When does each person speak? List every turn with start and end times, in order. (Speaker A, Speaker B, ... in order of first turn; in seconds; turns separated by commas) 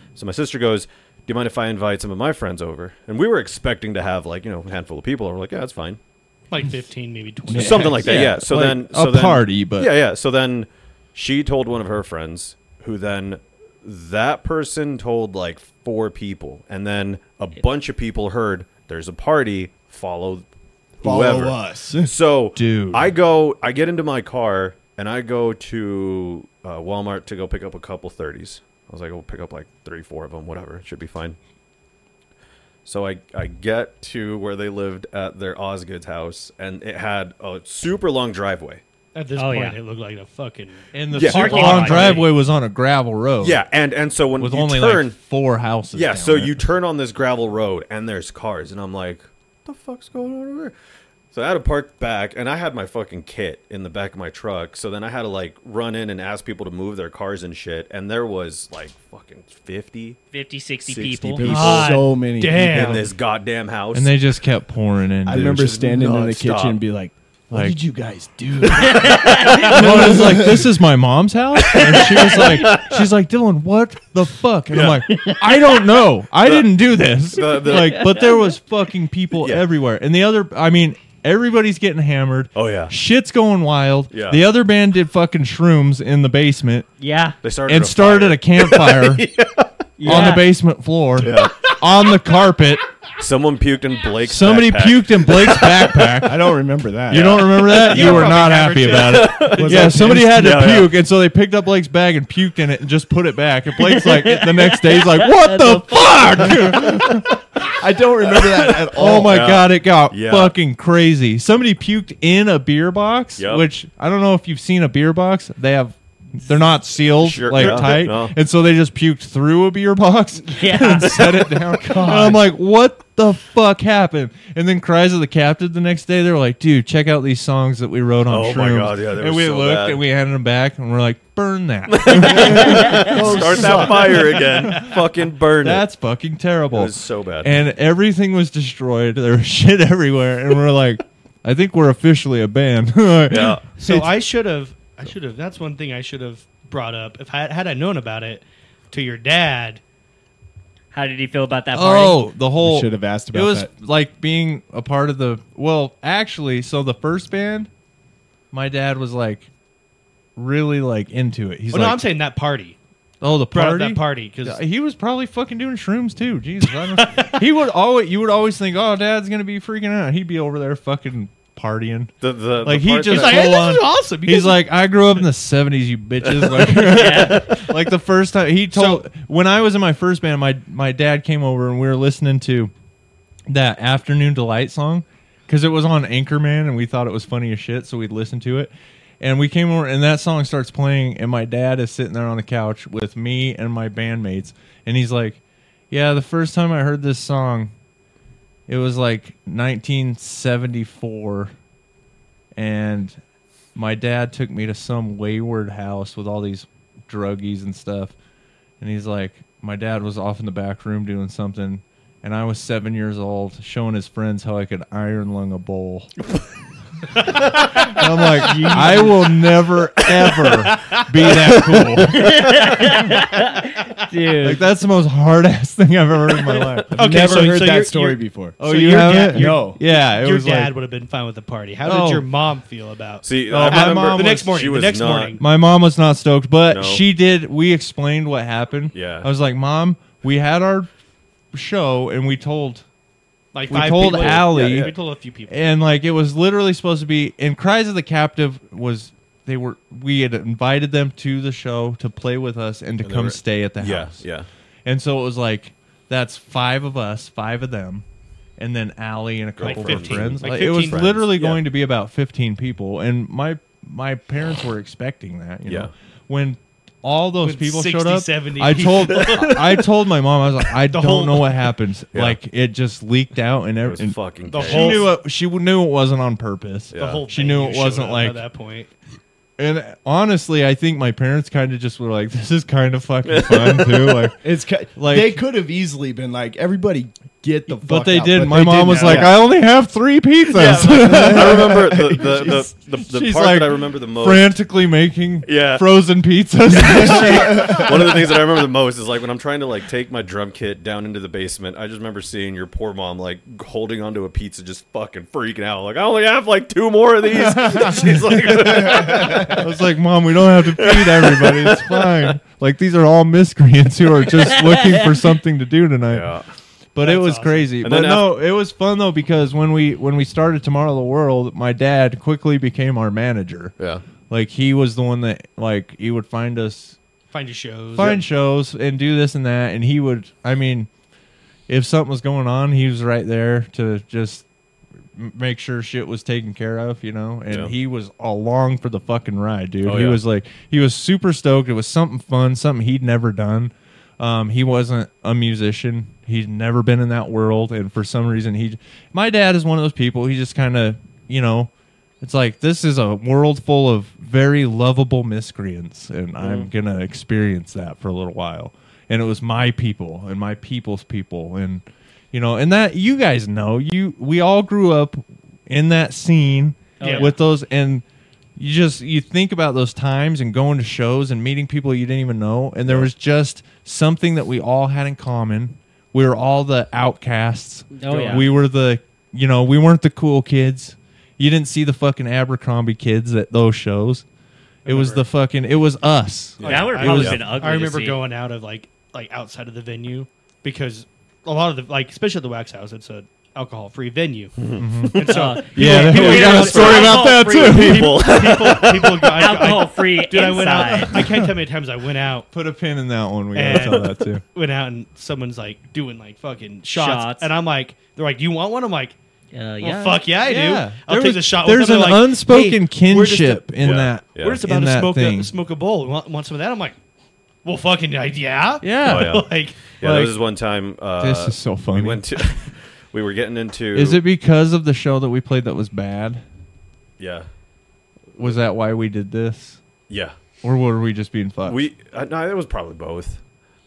Speaker A: 0.1-6.0, Speaker B: 6.5-8.1, Speaker C: 7.5-8.1, Speaker A: 7.5-20.4, Speaker D: 8.0-9.9, Speaker A: 21.0-31.4, Speaker C: 21.0-22.1, Speaker D: 22.5-23.1, Speaker A: 32.8-38.8, Speaker B: 39.1-42.3, Speaker E: 39.4-39.8, Speaker D: 40.9-43.6, Speaker A: 41.1-42.0, Speaker E: 41.3-42.2, Speaker A: 43.4-45.1, Speaker D: 44.4-46.6, Speaker A: 45.9-50.7, Speaker A: 51.3-60.2, Speaker E: 60.3-61.9, Speaker A: 60.8-61.9, Speaker C: 61.4-63.0, Speaker B: 61.5-63.1, Speaker A: 62.6-64.1, Speaker D: 63.9-65.7, Speaker C: 65.2-70.6, Speaker A: 65.3-66.8, Speaker D: 67.5-67.8, Speaker E: 68.8-69.7, Speaker D: 69.6-86.9, Speaker A: 71.7-73.0, Speaker A: 74.7-75.0, Speaker E: 75.1-75.6, Speaker A: 76.4-76.7, Speaker A: 77.3-78.2, Speaker E: 77.7-78.5, Speaker A: 82.5-82.9, Speaker A: 84.1-84.4, Speaker E: 87.0-87.3, Speaker A: 87.4-90.3, Speaker D: 87.7-89.3, Speaker E: 90.0-90.4, Speaker D: 90.0-92.9, Speaker A: 91.2-92.1, Speaker A: 93.2-96.1, Speaker D: 94.2-96.4, Speaker C: 96.2-98.2, Speaker D: 97.1-107.6, Speaker A: 97.1-100.9, Speaker B: 97.8-100.0, Speaker C: 99.5-100.7, Speaker E: 103.8-106.5, Speaker C: 106.7-107.1, Speaker C: 107.7-109.5, Speaker D: 108.9-134.9, Speaker A: 109.1-110.5, Speaker A: 113.4-113.7, Speaker A: 117.2-118.3, Speaker E: 120.5-121.2, Speaker C: 121.8-122.4, Speaker A: 128.3-130.0, Speaker A: 131.9-135.8, Speaker C: 132.3-134.4, Speaker D: 135.6-144.1, Speaker A: 136.7-137.6, Speaker A: 143.3-143.7, Speaker B: 143.8-149.8, Speaker E: 150.9-152.2, Speaker D: 151.7-157.7, Speaker C: 152.6-153.7, Speaker D: 158.5-159.5, Speaker D: 160.3-162.0, Speaker B: 161.7-162.8, Speaker D: 163.2-182.7, Speaker B: 163.5-164.6, Speaker B: 166.8-167.4, Speaker A: 172.2-173.6, Speaker B: 173.1-174.6, Speaker A: 176.4-177.6, Speaker E: 176.9-177.5, Speaker B: 178.7-179.0, Speaker D: 183.5-195.4, Speaker D: 195.9-197.7, Speaker D: 198.7-201.5, Speaker D: 202.5-203.2, Speaker D: 203.7-208.1, Speaker D: 208.8-216.1, Speaker D: 217.4-222.4, Speaker E: 218.4-219.1, Speaker E: 222.1-224.6, Speaker D: 224.4-227.0, Speaker C: 226.9-229.8, Speaker B: 226.9-235.4, Speaker D: 228.6-230.7, Speaker D: 231.8-232.2, Speaker A: 233.2-235.4, Speaker D: 233.5-234.5, Speaker D: 235.4-240.9, Speaker A: 236.7-237.0, Speaker A: 238.9-239.3, Speaker D: 241.5-242.8, Speaker B: 243.5-245.7, Speaker D: 243.7-244.9, Speaker A: 243.8-244.9, Speaker D: 245.5-254.2, Speaker A: 253.0-254.5, Speaker D: 254.8-258.0, Speaker D: 258.6-278.4, Speaker A: 259.6-261.6, Speaker B: 259.6-261.1, Speaker A: 265.6-265.9, Speaker B: 267.4-269.7, Speaker B: 270.9-271.5, Speaker A: 273.8-275.1, Speaker B: 274.5-275.1, Speaker A: 276.9-277.3, Speaker B: 277.0-278.9, Speaker D: 279.6-284.4, Speaker A: 283.2-284.2, Speaker C: 284.4-289.5, Speaker D: 284.9-285.4, Speaker D: 287.8-292.5, Speaker B: 288.9-289.4, Speaker A: 290.5-294.5, Speaker C: 290.8-292.6, Speaker D: 293.1-298.2, Speaker A: 295.4-295.9, Speaker A: 296.8-309.7, Speaker C: 297.2-297.9, Speaker D: 307.3-316.3, Speaker A: 310.6-312.3, Speaker A: 316.1-316.4, Speaker D: 316.9-323.8, Speaker B: 317.0-317.7, Speaker A: 317.8-318.3, Speaker D: 324.3-327.0, Speaker B: 327.3-328.2, Speaker D: 327.9-330.9, Speaker D: 331.7-334.4, Speaker D: 335.1-351.7, Speaker A: 339.8-340.2, Speaker D: 352.2-368.0, Speaker A: 356.4-356.7, Speaker E: 367.0-367.3, Speaker B: 367.0-367.3, Speaker D: 368.6-384.2, Speaker E: 377.9-378.5, Speaker B: 378.1-378.4, Speaker B: 384.8-385.2, Speaker D: 384.8-387.4, Speaker A: 386.6-387.4, Speaker E: 386.6-388.2, Speaker B: 386.6-394.6, Speaker A: 394.6-395.5, Speaker D: 394.8-398.3, Speaker B: 395.1-397.3, Speaker E: 395.3-398.0, Speaker A: 396.1-399.5, Speaker B: 398.1-402.5, Speaker E: 399.3-401.1, Speaker D: 400.8-401.5, Speaker D: 402.5-404.4, Speaker B: 403.5-409.1, Speaker A: 403.7-404.1, Speaker E: 406.9-407.5, Speaker E: 409.5-410.2, Speaker B: 409.8-413.7, Speaker D: 410.4-415.5, Speaker A: 413.8-414.6, Speaker B: 414.4-416.9, Speaker B: 417.6-419.9, Speaker D: 418.8-419.4, Speaker A: 419.0-419.5, Speaker A: 420.0-424.2, Speaker D: 420.0-420.3, Speaker D: 421.2-422.4, Speaker D: 423.9-426.4, Speaker A: 427.2-427.5, Speaker D: 428.4-429.8, Speaker A: 430.1-430.3, Speaker D: 430.6-431.8, Speaker A: 431.6-433.4